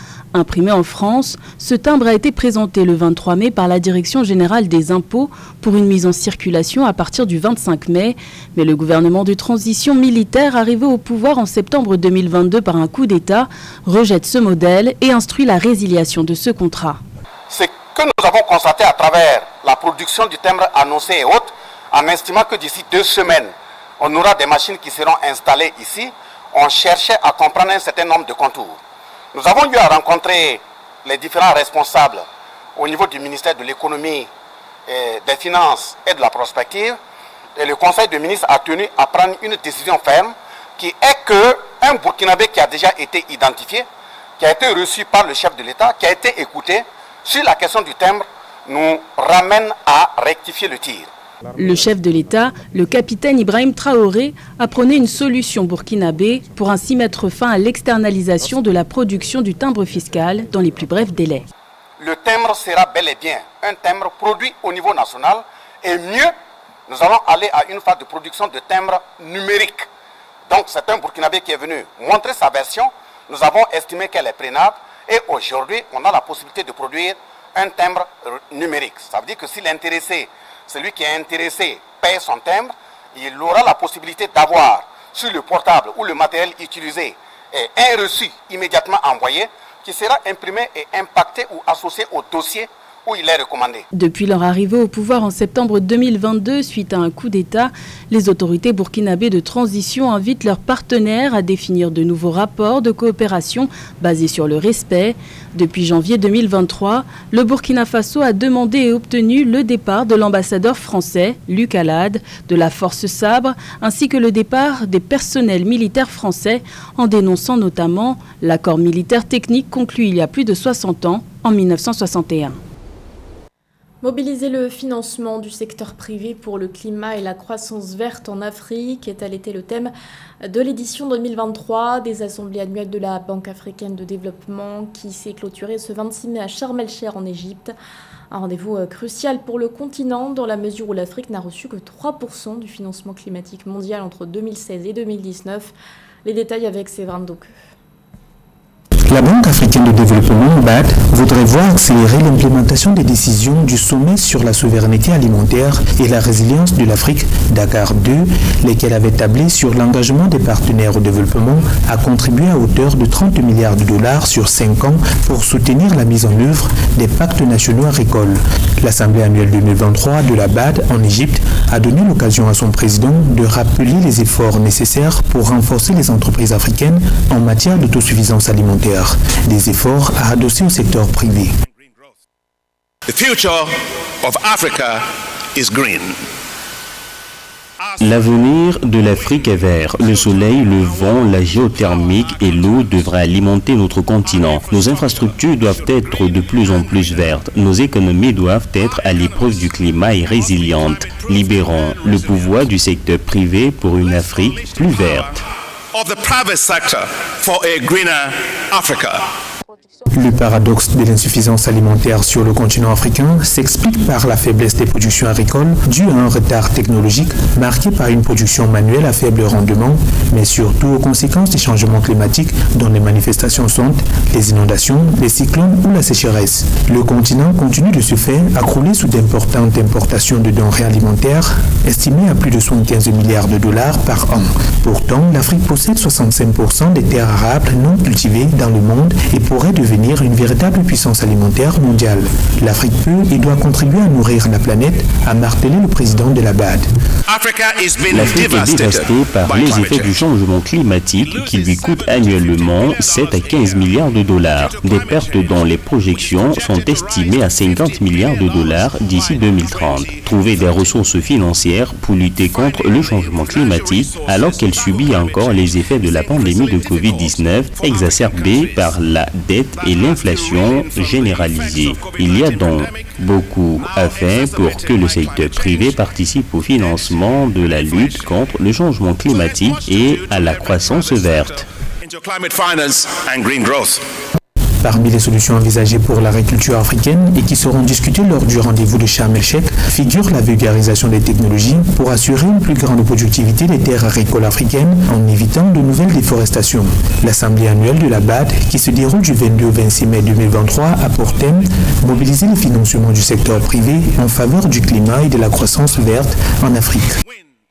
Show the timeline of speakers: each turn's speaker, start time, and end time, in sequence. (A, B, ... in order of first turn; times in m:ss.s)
0:00.3-0:17.0 A
0:17.5-0:28.8 B
0:29.3-0:34.3 B
0:34.9-0:37.0 B
0:37.6-0:43.9 B
0:44.4-0:51.1 B
0:51.5-1:01.5 A
1:02.0-1:06.3 B
1:06.9-1:09.9 B
1:10.5-1:33.8 B
1:33.9-2:02.6 A
2:04.0-2:09.9 C
2:10.4-2:17.7 C
2:18.3-2:25.7 C
2:26.2-2:27.5 C
2:29.1-3:01.5 D
3:01.8-3:02.1 E
3:03.1-3:06.2 E
3:07.8-3:08.3 E
3:08.0-3:25.3 F
3:10.1-3:13.0 E
3:14.2-3:17.2 E
3:18.9-3:19.6 E
3:20.3-3:22.7 E
3:24.0-3:25.2 E
3:25.9-3:29.2 E
3:30.1-4:06.9 D
4:07.3-4:10.2 E
4:08.1-4:41.6 F
4:11.3-4:13.9 E
4:14.6-4:20.8 E
4:22.4-4:28.9 E
4:29.8-4:33.1 E
4:33.8-4:36.1 E
4:36.9-4:37.2 E
4:37.8-4:38.3 E
4:39.3-4:44.0 E
4:44.8-5:07.1 D